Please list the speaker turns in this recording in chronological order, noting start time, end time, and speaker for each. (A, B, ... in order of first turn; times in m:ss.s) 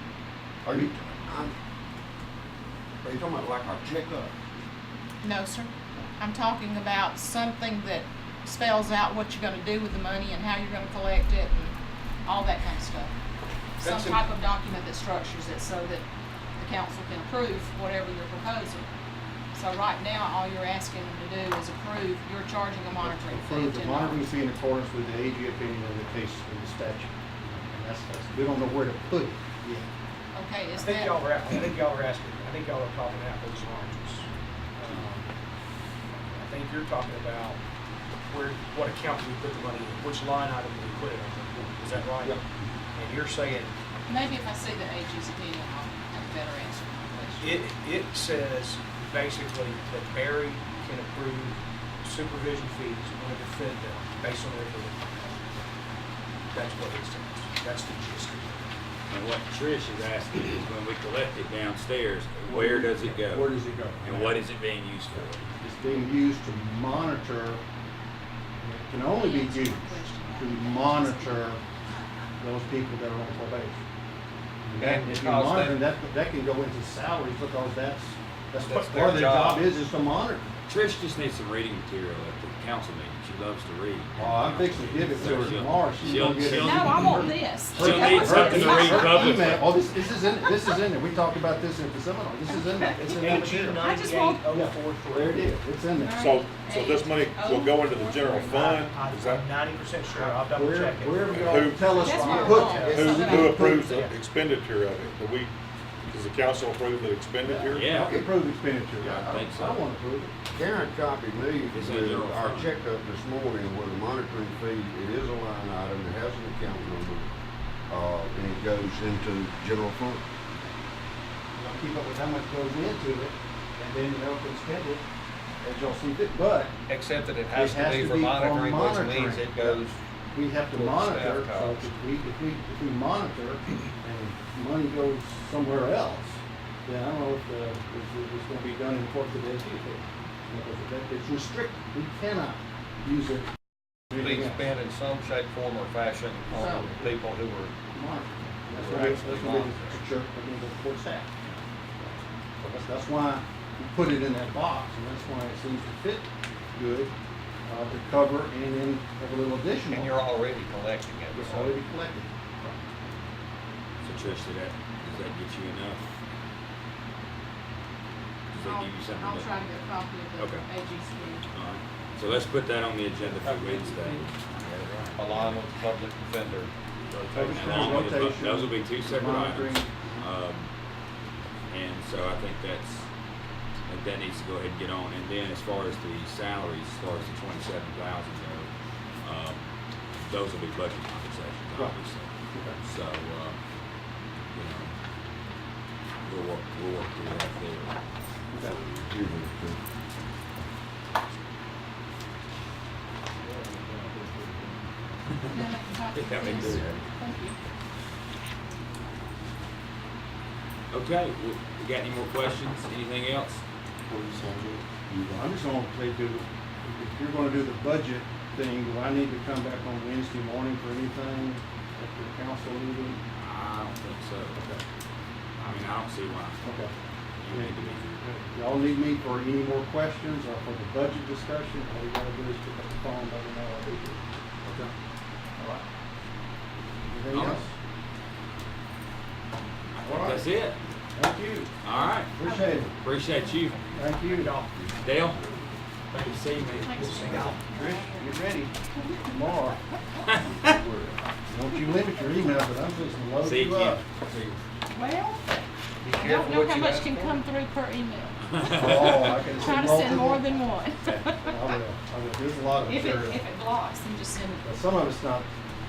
0:00.6-0:01.5 A
0:03.0-0:04.3 A
0:05.2-0:13.1 B
0:13.8-0:16.0 B
0:13.8-0:14.2 C
0:16.6-0:18.9 B
0:19.5-0:24.2 B
0:23.0-0:29.9 D
0:30.3-0:31.2 B
0:30.7-0:35.3 E
0:36.3-0:37.6 E
0:38.3-0:42.4 E
0:42.9-0:43.7 E
0:44.1-0:47.6 B
0:47.4-0:55.5 E
0:56.5-0:58.7 E
0:59.1-1:03.5 F
1:02.4-1:04.4 D
1:04.0-1:05.5 F
1:05.5-1:07.6 D
1:08.6-1:11.6 D
1:09.1-1:11.5 B
1:12.4-1:13.8 D
1:14.6-1:20.5 D
1:14.8-1:15.8 C
1:18.6-1:19.8 C
1:20.7-1:29.7 F
1:24.1-1:33.8 D
1:26.5-1:29.4 B
1:32.5-1:33.2 B
1:33.0-1:35.5 E
1:33.4-1:33.7 C
1:33.8-1:34.4 B
1:34.5-1:36.3 D
1:35.9-1:38.8 B
1:36.1-1:39.5 G
1:38.5-1:43.1 E
1:40.1-1:44.2 D
1:41.3-1:42.2 G
1:42.0-1:43.7 B
1:42.2-1:43.2 A
1:42.7-1:45.5 G
1:46.1-1:48.0 G
1:47.4-1:50.3 D
1:47.7-1:48.2 F
1:48.0-1:48.3 A
1:49.0-1:49.8 F
1:50.5-1:57.4 A
1:51.7-1:52.8 F
1:57.9-2:00.2 A
2:01.6-2:05.0 D
2:05.6-2:06.8 D
2:06.9-2:10.0 C
2:07.5-2:09.8 D
2:10.3-2:23.5 D
2:10.7-2:11.9 C
2:24.1-2:24.7 D
2:24.1-2:27.7 C
2:26.5-2:27.2 D
2:27.9-2:31.3 D
2:28.6-2:30.0 C
2:32.0-2:37.1 D
2:37.6-2:40.1 D
2:39.9-2:41.8 C
2:41.3-2:42.8 D
2:44.0-2:46.1 F
2:48.5-2:49.6 F
2:48.5-2:51.4 B
2:50.4-2:50.7 F
2:51.5-2:55.6 F
2:53.4-2:54.2 C
2:55.2-2:58.1 C
2:57.2-3:00.7 F
2:57.3-3:00.2 D
3:01.7-3:03.1 F
3:03.8-3:08.7 F
3:09.2-3:09.6 F
3:10.2-3:13.6 F
3:12.5-3:12.8 D
3:14.5-3:14.9 F
3:16.2-3:18.0 F
3:18.5-3:18.8 D
3:18.6-3:19.8 A
3:23.7-3:24.7 D
3:25.3-3:27.0 F
3:25.5-3:27.6 B
3:30.9-3:33.6 F
3:35.1-3:43.2 D
3:43.3-3:44.6 F
3:44.5-3:44.8 D
3:45.6-3:46.8 F
3:46.6-3:46.9 D
3:47.4-3:48.2 F
3:47.5-3:54.9 D
3:55.6-3:55.8 D
3:57.1-3:57.7 D
3:57.3-3:57.6 F
3:59.9-4:00.8 F
4:00.0-4:00.4 D
4:01.1-4:01.7 D
4:01.8-4:03.8 F
4:02.3-4:02.9 D
4:03.9-4:04.5 D
4:04.2-4:04.9 E
4:05.0-4:05.4 F
4:06.1-4:07.5 F
4:06.8-4:08.4 B
4:06.9-4:07.6 E
4:07.5-4:08.7 D
4:08.9-4:09.3 B
4:09.2-4:09.8 D
4:10.3-4:10.7 F
4:10.4-4:11.2 A
4:11.5-4:14.2 D
4:13.4-4:14.0 F
4:14.9-4:15.5 B
4:16.0-4:17.4 E
4:16.1-4:18.4 B
4:18.5-4:19.5 F
4:18.6-4:23.4 D
4:19.6-4:21.7 B
4:22.8-4:24.6 B
4:24.6-4:25.5 D